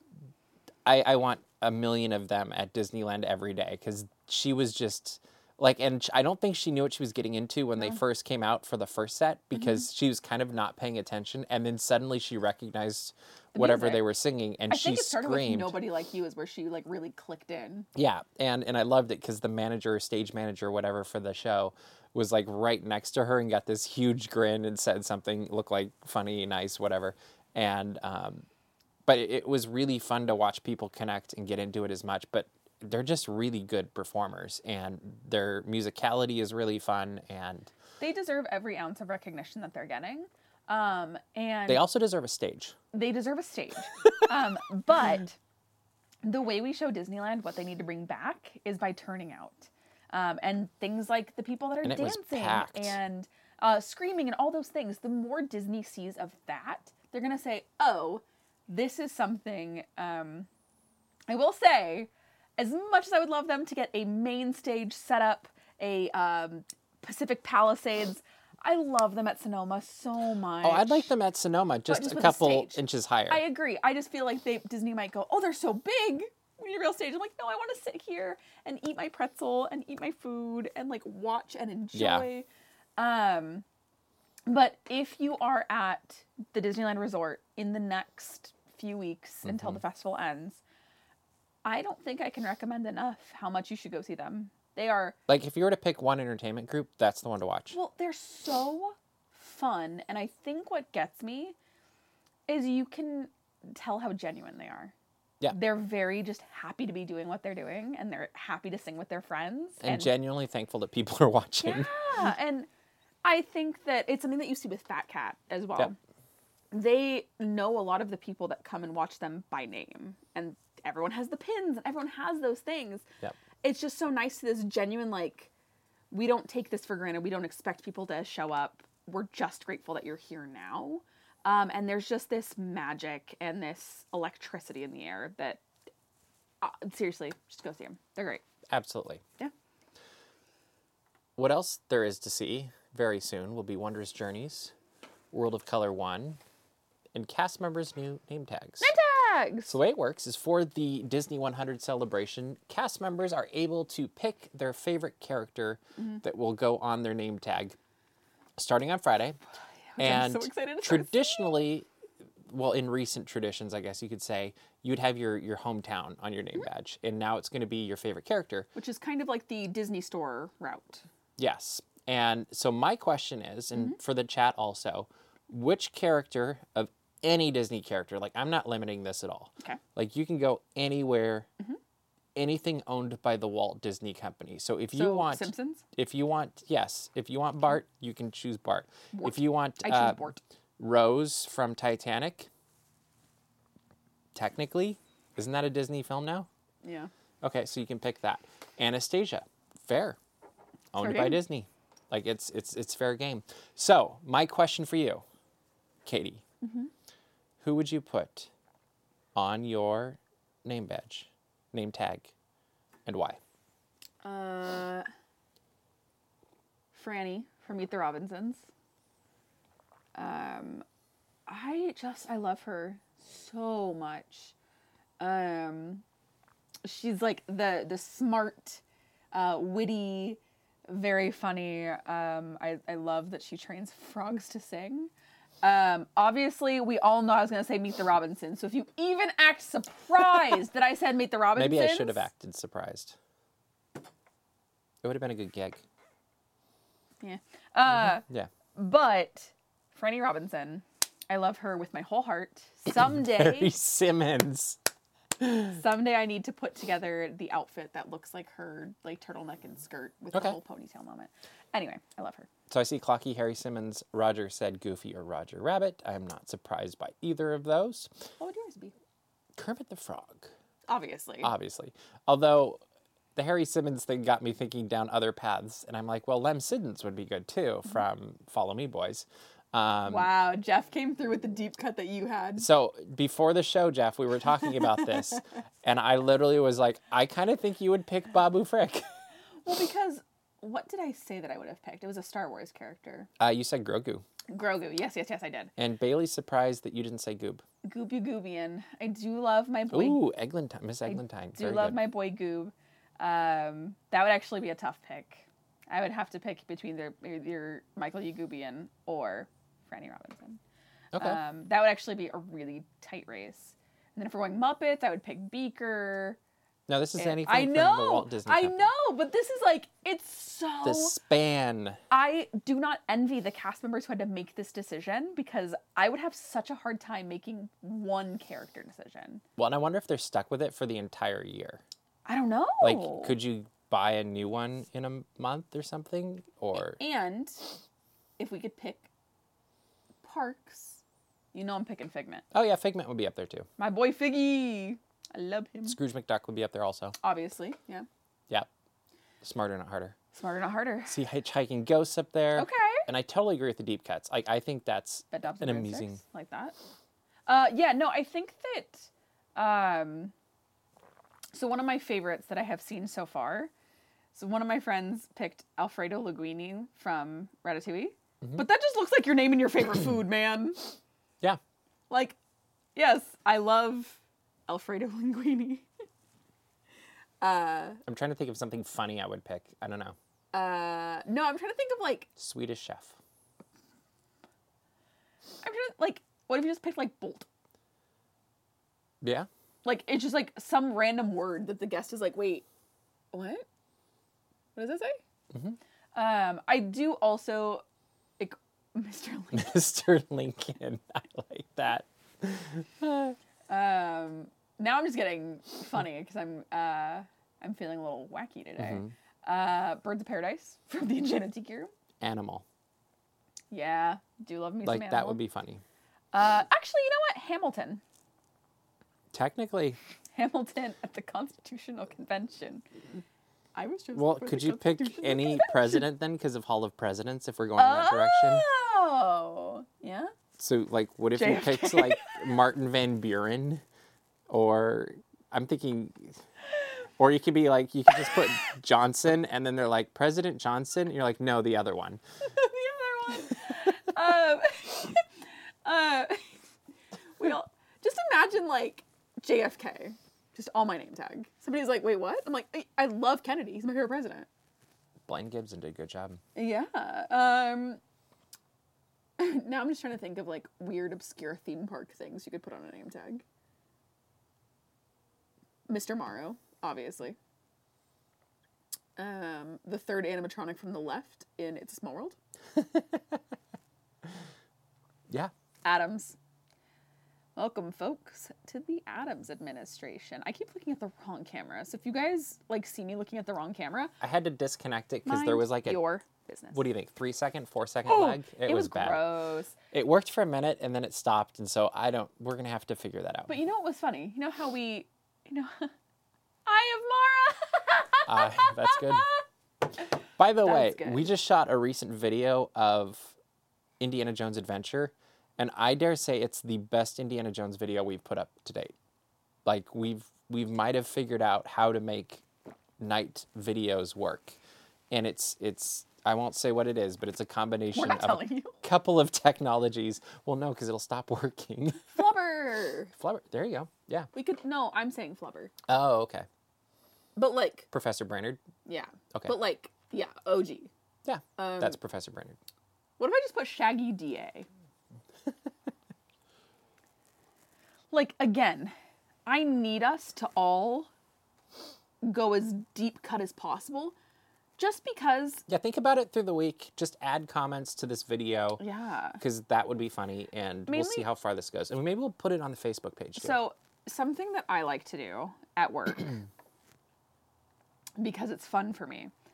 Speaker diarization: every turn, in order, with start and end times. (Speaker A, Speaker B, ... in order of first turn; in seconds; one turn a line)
Speaker A: 0.9-15.8
Speaker B: 9.6-9.9
Speaker B: 13.6-14.0
Speaker B: 14.7-17.9
Speaker A: 17.9-28.4
Speaker A: 29.1-37.7
Speaker B: 38.0-41.8
Speaker A: 41.7-42.8
Speaker B: 42.9-45.4
Speaker B: 46.2-60.5
Speaker A: 51.8-53.0
Speaker B: 61.3-71.1
Speaker A: 70.6-73.4
Speaker B: 71.9-83.6
Speaker A: 81.9-82.3
Speaker B: 84.5-90.6
Speaker A: 89.4-89.8
Speaker B: 91.7-95.2
Speaker A: 95.3-97.8
Speaker B: 97.7-101.5
Speaker B: 102.5-104.9
Speaker B: 105.5-110.1
Speaker A: 109.8-112.3
Speaker B: 111.6-112.7
Speaker B: 113.2-116.0
Speaker B: 116.7-123.1
Speaker B: 123.6-125.5
Speaker B: 126.1-135.6
Speaker B: 136.6-138.4
Speaker A: 138.7-139.2
Speaker A: 141.4-144.7
Speaker A: 145.3-146.4
Speaker A: 147.1-148.9
Speaker B: 148.8-149.8
Speaker A: 149.7-157.8
Speaker B: 156.0-156.2
Speaker A: 158.6-159.4
Speaker B: 159.9-161.5
Speaker A: 160.0-161.9
Speaker A: 162.5-168.7
Speaker B: 168.8-171.1
Speaker A: 171.4-181.5
Speaker A: 182.3-190.2
Speaker B: 184.9-185.8
Speaker B: 189.1-190.4
Speaker A: 190.8-192.5
Speaker A: 194.3-196.5
Speaker B: 196.8-197.1
Speaker A: 197.4-200.2
Speaker A: 200.9-205.2
Speaker B: 201.0-201.4
Speaker A: 206.1-206.4
Speaker B: 206.6-206.9
Speaker A: 207.6-208.5
Speaker A: 209.3-212.3
Speaker A: 213.1-213.4
Speaker B: 214.2-215.1
Speaker B: 216.9-218.7
Speaker B: 220.2-220.8
Speaker B: 221.5-224.6
Speaker B: 225.2-226.0
Speaker B: 226.8-228.8
Speaker B: 229.3-235.1
Speaker B: 235.6-242.2
Speaker A: 241.6-243.2
Speaker A: 245.0-245.8
Speaker B: 247.2-248.2
Speaker A: 247.9-248.5
Speaker B: 248.8-253.7
Speaker A: 253.0-254.8
Speaker B: 255.5-262.5
Speaker A: 262.7-268.2
Speaker B: 268.4-268.9
Speaker A: 269.6-270.5
Speaker B: 270.9-271.5
Speaker A: 271.4-272.8
Speaker A: 273.4-280.3
Speaker B: 280.1-282.7
Speaker A: 282.6-289.1
Speaker B: 284.7-285.4
Speaker B: 289.6-293.3
Speaker A: 293.4-294.2
Speaker B: 294.5-295.7
Speaker A: 295.8-297.6
Speaker B: 297.8-300.2
Speaker A: 299.9-302.0
Speaker B: 301.1-310.6
Speaker A: 311.1-311.4
Speaker B: 311.2-316.4
Speaker A: 316.9-318.9
Speaker B: 317.2-321.2
Speaker A: 320.8-322.0
Speaker B: 322.1-329.4
Speaker A: 329.6-331.8
Speaker B: 332.2-333.4
Speaker A: 332.8-337.0
Speaker B: 336.8-337.7
Speaker B: 338.4-339.1
Speaker B: 340.2-341.0
Speaker B: 341.5-342.4
Speaker A: 342.5-343.7
Speaker B: 343.8-346.0
Speaker A: 345.9-347.2
Speaker B: 347.2-348.1
Speaker A: 349.4-350.2
Speaker B: 350.3-351.2
Speaker A: 351.1-356.2
Speaker B: 352.6-353.1
Speaker B: 355.3-356.8
Speaker B: 357.5-360.3
Speaker B: 361.5-363.7
Speaker B: 364.4-371.0
Speaker B: 372.1-372.4
Speaker B: 373.0-375.9
Speaker B: 377.4-378.0
Speaker A: 378.1-380.2
Speaker B: 380.5-382.3
Speaker A: 382.4-383.2
Speaker B: 385.6-387.5
Speaker A: 389.2-389.5
Speaker B: 389.9-392.6
Speaker B: 393.3-393.6
Speaker B: 394.8-395.2
Speaker A: 395.5-395.8
Speaker B: 396.1-397.8
Speaker B: 398.4-399.8
Speaker A: 399.5-403.4
Speaker B: 403.7-411.9
Speaker A: 408.8-409.1
Speaker A: 412.2-412.6
Speaker B: 413.7-415.4
Speaker A: 414.9-415.8
Speaker B: 416.3-418.0
Speaker A: 419.3-420.0
Speaker B: 420.4-422.9
Speaker B: 423.8-426.0
Speaker A: 424.1-428.7
Speaker B: 427.8-430.3
Speaker A: 430.6-433.8
Speaker B: 431.4-432.5
Speaker A: 434.5-436.4
Speaker A: 437.2-442.2
Speaker B: 442.5-445.3
Speaker B: 445.9-446.5
Speaker B: 447.4-454.5
Speaker A: 455.2-456.4
Speaker B: 456.6-458.0
Speaker B: 459.4-463.4
Speaker B: 465.9-467.4
Speaker B: 469.2-472.4
Speaker A: 472.8-473.4
Speaker B: 475.9-476.4
Speaker B: 477.6-484.1
Speaker A: 484.2-486.0
Speaker B: 485.2-486.8
Speaker A: 486.7-489.2
Speaker B: 488.1-489.8
Speaker A: 489.9-493.5
Speaker B: 493.5-495.9
Speaker B: 496.7-499.4
Speaker A: 498.3-499.3
Speaker A: 500.4-503.4
Speaker B: 500.6-501.3
Speaker A: 504.0-508.9
Speaker A: 509.6-512.4
Speaker A: 513.0-514.6
Speaker A: 515.1-522.2
Speaker B: 517.9-518.8
Speaker B: 522.1-523.1
Speaker A: 523.1-524.3
Speaker B: 524.3-525.7
Speaker A: 525.9-526.5
Speaker B: 527.4-527.9
Speaker A: 527.9-528.6
Speaker B: 528.9-530.9
Speaker A: 531.2-532.6
Speaker B: 531.6-532.0
Speaker B: 533.2-534.7
Speaker B: 538.1-538.9
Speaker B: 539.5-541.1
Speaker B: 542.2-544.2
Speaker B: 544.8-545.6
Speaker A: 545.7-548.8
Speaker B: 548.8-549.4
Speaker A: 549.4-553.6
Speaker B: 550.9-551.2
Speaker B: 553.4-556.4
Speaker B: 558.2-559.3